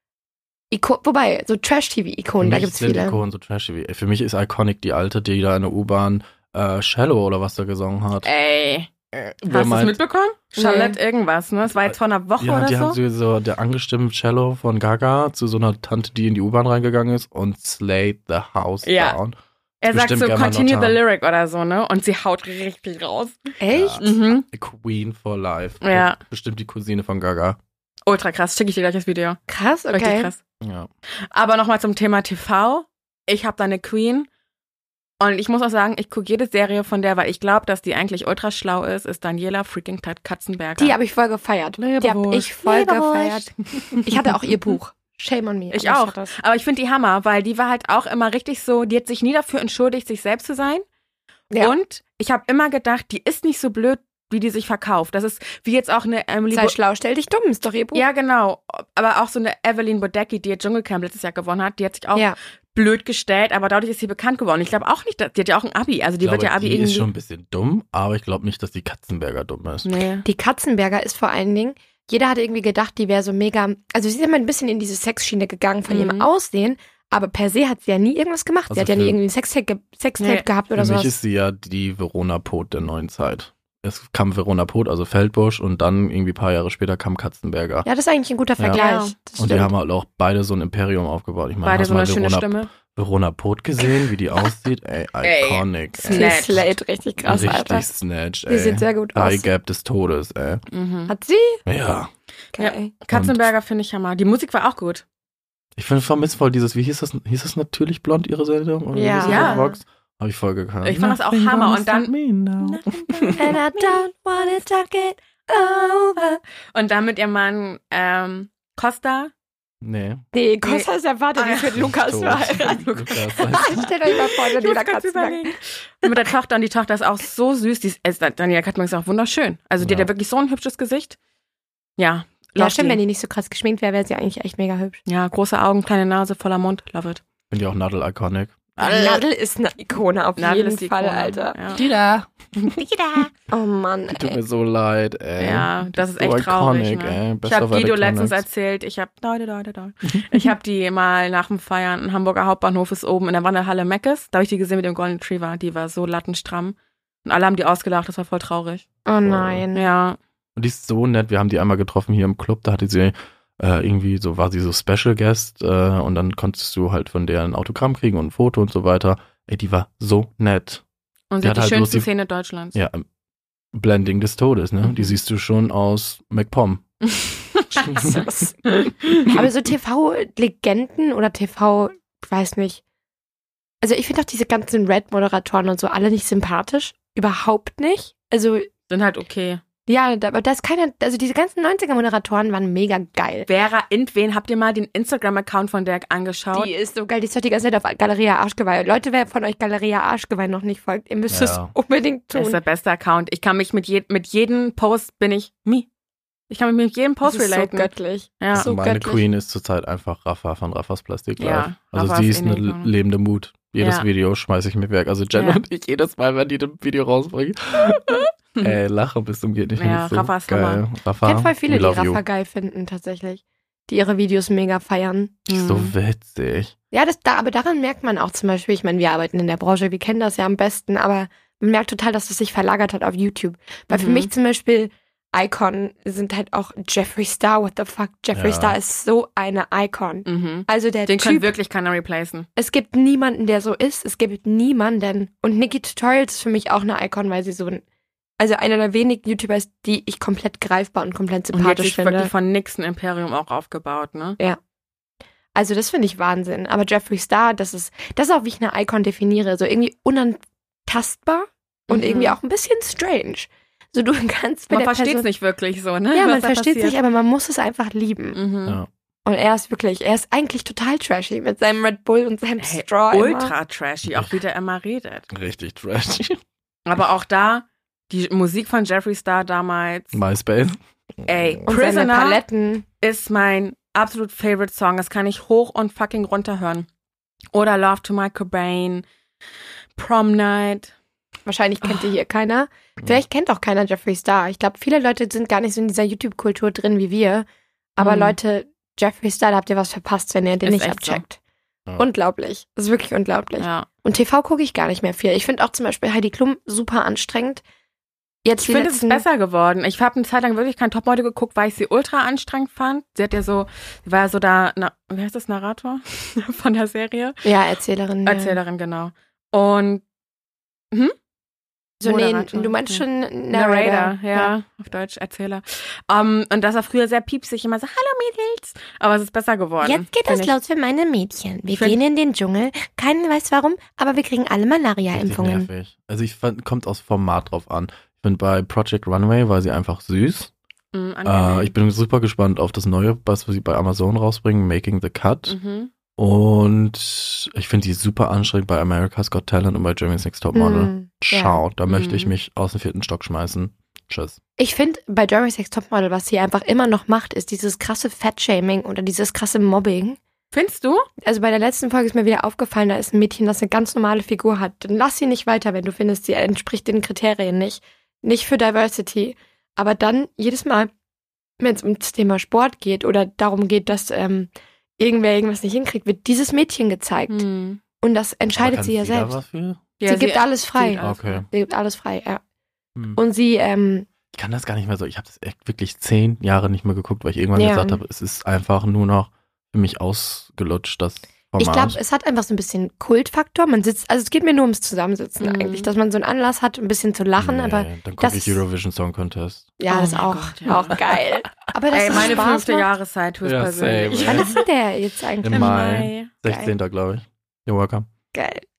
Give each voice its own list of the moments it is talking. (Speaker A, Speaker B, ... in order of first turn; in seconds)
Speaker A: 0.7-3.2, 10.6-11.0, 23.6-24.2, 29.5-30.3, 40.8-46.4, 56.5-58.0, 70.2-81.1, 87.9-89.7, 96.1-97.8, 98.5-99.5, 101.1-101.6, 102.6-102.9, 108.9-109.8, 113.4-116.4, 120.3-122.9, 123.5-126.2, 132.6-135.0, 138.8-141.9, 143.5-144.4, 159.1-159.9, 177.9-182.8, 183.8-188.7, 189.9-193.5, 196.5-202.6, 207.2-209.2, 221.2-225.4, 226.9-241.5, 242.6-247.8, 248.4-252.3, 255.6-265.3, 266.1-268.4, 269.2-273.5, 281.7-282.9, 291.5-301.4, 302.0-307.6, 308.4-309.2, 317.4-318.6, 322.0-324.5, 329.8-335.7, 350.5-351.6, 354.6-360.2, 361.2-370.9, 371.6-377.4, 378.0-379.3, 380.0-382.4, 383.2-384.1, 387.6-388.0, 391.6-398.6, 399.8-402.9, 404.1-405.8, 406.5-406.7, 408.3-408.6
Speaker B: 2.4-8.3, 9.1-10.0, 11.8-19.4, 19.9-21.0, 23.7-27.6, 30.6-30.9, 41.8-42.5, 66.2-69.9, 78.7-79.2, 80.7-87.9, 89.4-96.7, 97.2-100.6, 101.7-102.1, 103.1-103.5, 105.8-113.6, 119.8-120.2, 121.8-123.9, 129.8-130.1, 137.5-139.2, 141.8-142.8, 144.1-148.4, 159.2-159.7, 160.6-170.8, 171.4-172.1, 172.7-173.1, 173.7-176.9, 177.8-178.2, 201.3-201.7, 208.5-222.2, 225.5-226.7, 238.3-238.8, 274.1-274.4, 275.3-276.4, 280.1-281.6, 335.1-340.5, 341.2-345.6, 346.2-354.4, 378.6-379.9, 381.0-381.5, 384.3-392.0, 397.4-399.7, 403.4-404.6, 405.4-408.1
Speaker C: 8.2-8.9, 9.5-13.0, 18.8-19.2, 19.8-23.4, 24.0-24.5, 25.8-26.2, 28.1-29.4, 29.9-30.4, 31.3-34.3, 35.2-41.0, 42.5-44.1, 45.7-50.9, 51.6-56.8, 57.9-67.1, 69.8-70.3, 75.9-76.3, 80.2-80.5, 88.7-89.2, 91.6-92.7, 95.2-96.6, 100.7-101.1, 102.6-105.0, 109.2-109.7, 110.8-112.1, 112.6-114.0, 115.5-119.3, 120.6-131.2, 132.0-133.0, 135.1-137.2, 138.8-139.2, 140.4-141.8, 142.6-143.3, 145.4-158.8, 159.7-160.2, 171.3-172.8, 174.8-175.2, 177.2-177.9, 188.9-189.6, 193.5-196.7, 202.3-205.9, 206.5-208.7, 211.4-212.9, 213.8-214.1, 215.3-215.6, 219.8-220.8, 225.5-225.9, 233.9-234.3, 240.2-242.5, 251.5-254.4, 261.9-262.4, 264.7-267.0, 268.3-268.8, 272.6-275.3, 276.9-280.2, 281.3-282.4, 283.0-286.9, 287.5-289.1, 290.0-290.9, 291.8-292.1, 298.0-298.4, 300.6-301.2, 303.6-303.9, 308.6-317.4, 318.2-320.0, 322.0-330.5, 331.7-332.0, 340.9-341.7, 345.5-345.9, 351.9-352.3, 360.5-361.1, 377.3-377.8, 380.0-381.5, 395.4-395.9, 399.9-401.0, 401.9-404.6, 405.5-406.3